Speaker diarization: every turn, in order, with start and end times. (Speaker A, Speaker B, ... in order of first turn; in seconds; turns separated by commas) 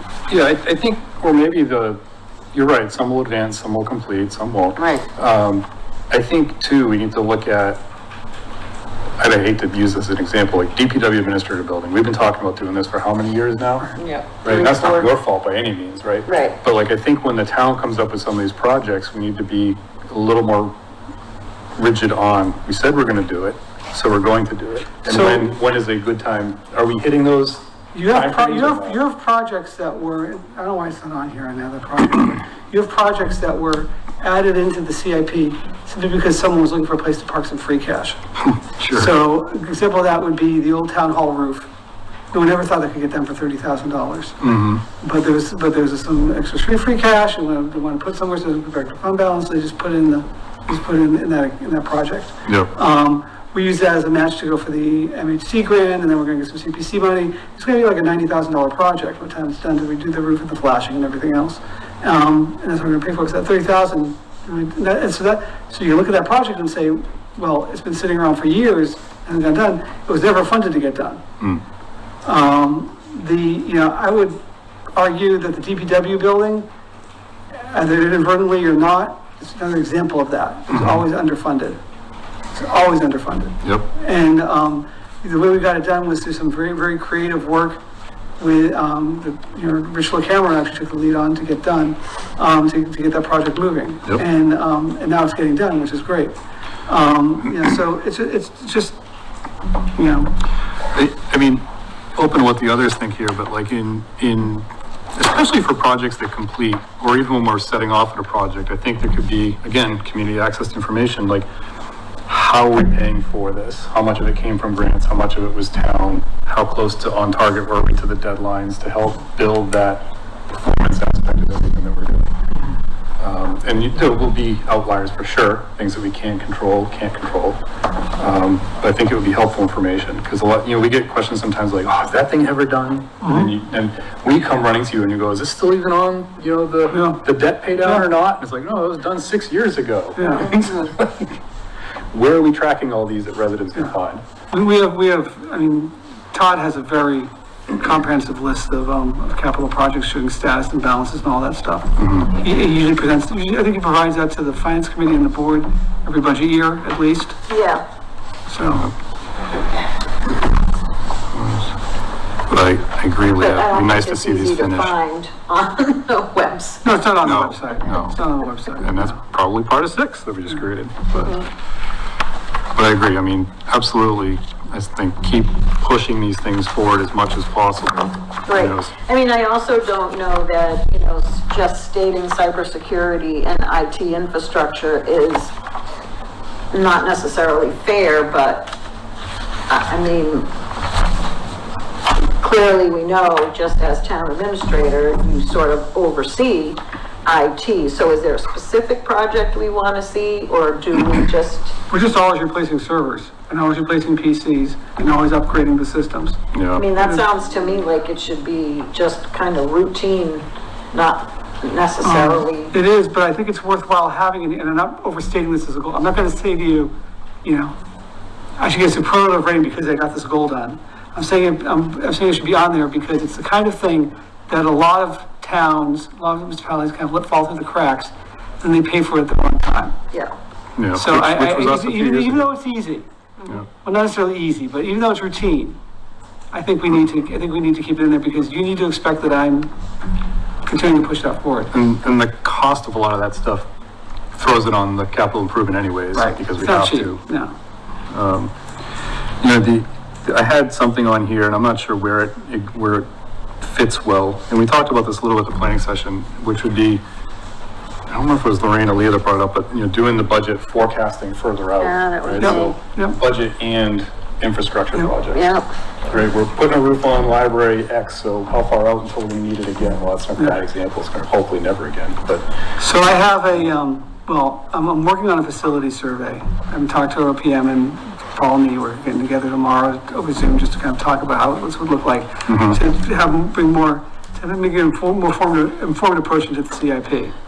Speaker A: 0.3-2.0, Speaker A: 2.5-7.8, Speaker B: 4.8-5.1, Speaker A: 9.2-20.8, Speaker B: 14.0-15.1, Speaker B: 16.2-16.6, Speaker A: 21.8-29.0, Speaker C: 25.1-25.5, Speaker C: 27.9-38.2, Speaker A: 38.4-39.1, Speaker C: 38.9-41.7, Speaker C: 42.3-44.4, Speaker A: 44.4-44.8, Speaker C: 45.0-71.2, Speaker A: 52.5-52.7, Speaker C: 72.2-74.4, Speaker C: 75.0-76.7, Speaker C: 77.5-81.8, Speaker A: 80.7-81.0, Speaker C: 82.5-87.8, Speaker C: 88.4-96.3, Speaker C: 96.9-99.0, Speaker C: 100.0-100.3, Speaker A: 100.9-111.5, Speaker A: 112.3-122.3, Speaker A: 123.2-127.6, Speaker A: 128.2-141.4, Speaker C: 133.2-133.5, Speaker C: 136.9-137.2, Speaker C: 137.8-138.1, Speaker C: 140.2-140.6, Speaker A: 142.1-144.2, Speaker C: 144.5-157.3, Speaker A: 152.0-152.3, Speaker B: 157.5-157.8, Speaker C: 158.5-158.9, Speaker A: 158.7-158.9, Speaker A: 161.3-161.8, Speaker A: 162.5-165.0, Speaker B: 163.3-166.8, Speaker C: 166.8-169.2, Speaker A: 167.2-168.2, Speaker A: 168.8-171.4, Speaker B: 171.2-171.5, Speaker A: 172.8-178.9, Speaker B: 178.5-185.5, Speaker B: 186.7-188.7, Speaker B: 189.7-190.5, Speaker B: 192.4-201.8, Speaker C: 201.9-206.4, Speaker A: 206.5-206.9, Speaker B: 206.8-212.7, Speaker C: 207.0-207.2, Speaker C: 212.0-217.8, Speaker C: 218.6-229.9, Speaker A: 230.8-232.5, Speaker C: 230.9-233.1, Speaker C: 233.7-235.8, Speaker C: 236.5-239.7, Speaker C: 240.7-241.7, Speaker A: 241.7-243.7, Speaker A: 244.3-247.2, Speaker C: 246.1-247.5, Speaker A: 248.1-248.5, Speaker A: 249.4-253.1, Speaker A: 253.6-257.0, Speaker A: 258.1-265.5, Speaker B: 261.8-262.8, Speaker C: 262.4-263.2, Speaker B: 265.3-265.7, Speaker A: 266.1-272.5, Speaker C: 272.8-287.3, Speaker A: 282.5-282.8